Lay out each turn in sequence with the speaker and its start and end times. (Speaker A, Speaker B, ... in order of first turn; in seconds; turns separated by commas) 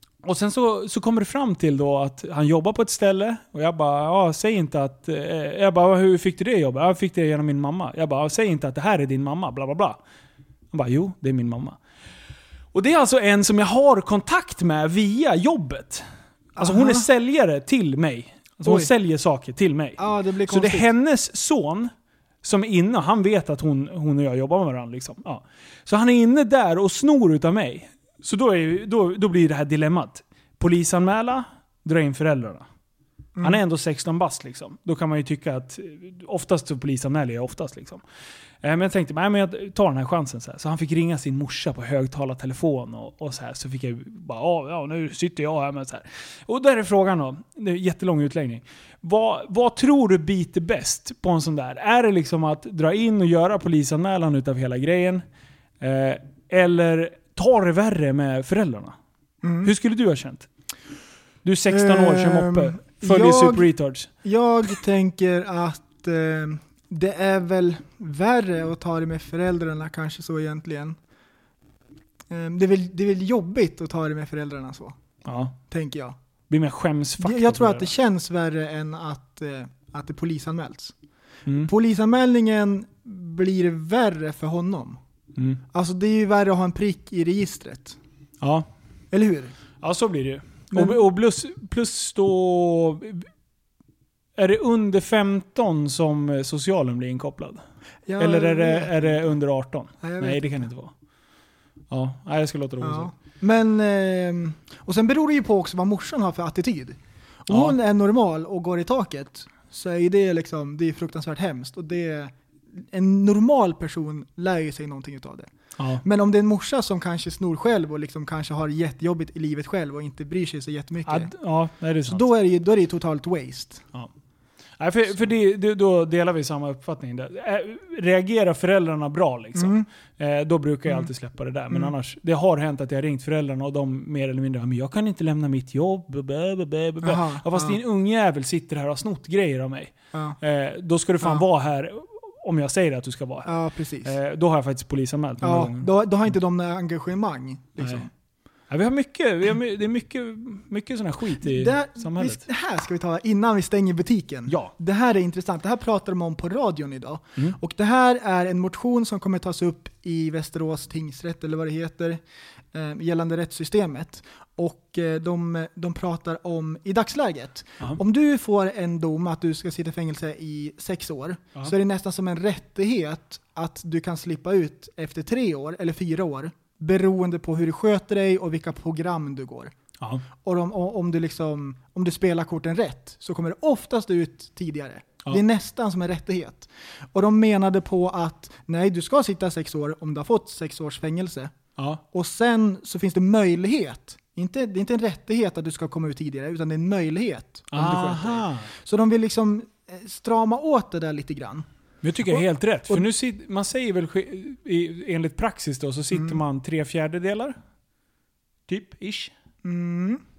Speaker A: 0.2-10.0, Speaker A: 10.7-11.8, Speaker A: 12.7-16.1, Speaker A: 16.6-21.9, Speaker B: 16.6-17.1, Speaker B: 18.6-18.9, Speaker B: 20.0-20.9, Speaker A: 22.4-32.7, Speaker A: 33.4-38.0, Speaker A: 38.6-55.2, Speaker A: 55.8-59.0, Speaker B: 59.4-59.7, Speaker A: 59.6-60.5, Speaker A: 61.4-64.1, Speaker B: 61.7-63.7, Speaker B: 64.2-71.0, Speaker B: 72.3-75.0, Speaker A: 75.3-75.6, Speaker B: 75.7-76.2, Speaker A: 76.5-77.9, Speaker B: 77.2-80.9, Speaker B: 81.7-85.0, Speaker A: 85.4-85.6, Speaker B: 85.7-88.0, Speaker A: 88.4-88.7, Speaker B: 89.1-89.5, Speaker A: 89.8-93.3, Speaker B: 90.7-91.0, Speaker A: 94.4-97.6, Speaker B: 98.1-99.2, Speaker A: 98.2-100.9, Speaker B: 100.0-100.7, Speaker A: 101.9-103.1, Speaker B: 102.8-115.5, Speaker A: 107.5-107.8, Speaker B: 116.0-121.3, Speaker A: 121.1-122.3, Speaker B: 122.1-123.8, Speaker A: 124.8-145.9, Speaker B: 129.6-129.9, Speaker B: 137.0-137.8, Speaker B: 140.1-140.4, Speaker B: 143.5-144.1, Speaker B: 145.4-148.1, Speaker A: 148.7-152.4, Speaker B: 151.4-162.2, Speaker B: 162.7-179.7, Speaker B: 180.4-191.5, Speaker B: 192.1-201.7, Speaker A: 197.7-198.7, Speaker A: 202.0-207.6, Speaker B: 202.3-203.1, Speaker B: 206.1-206.4, Speaker A: 208.7-209.3, Speaker B: 209.6-210.2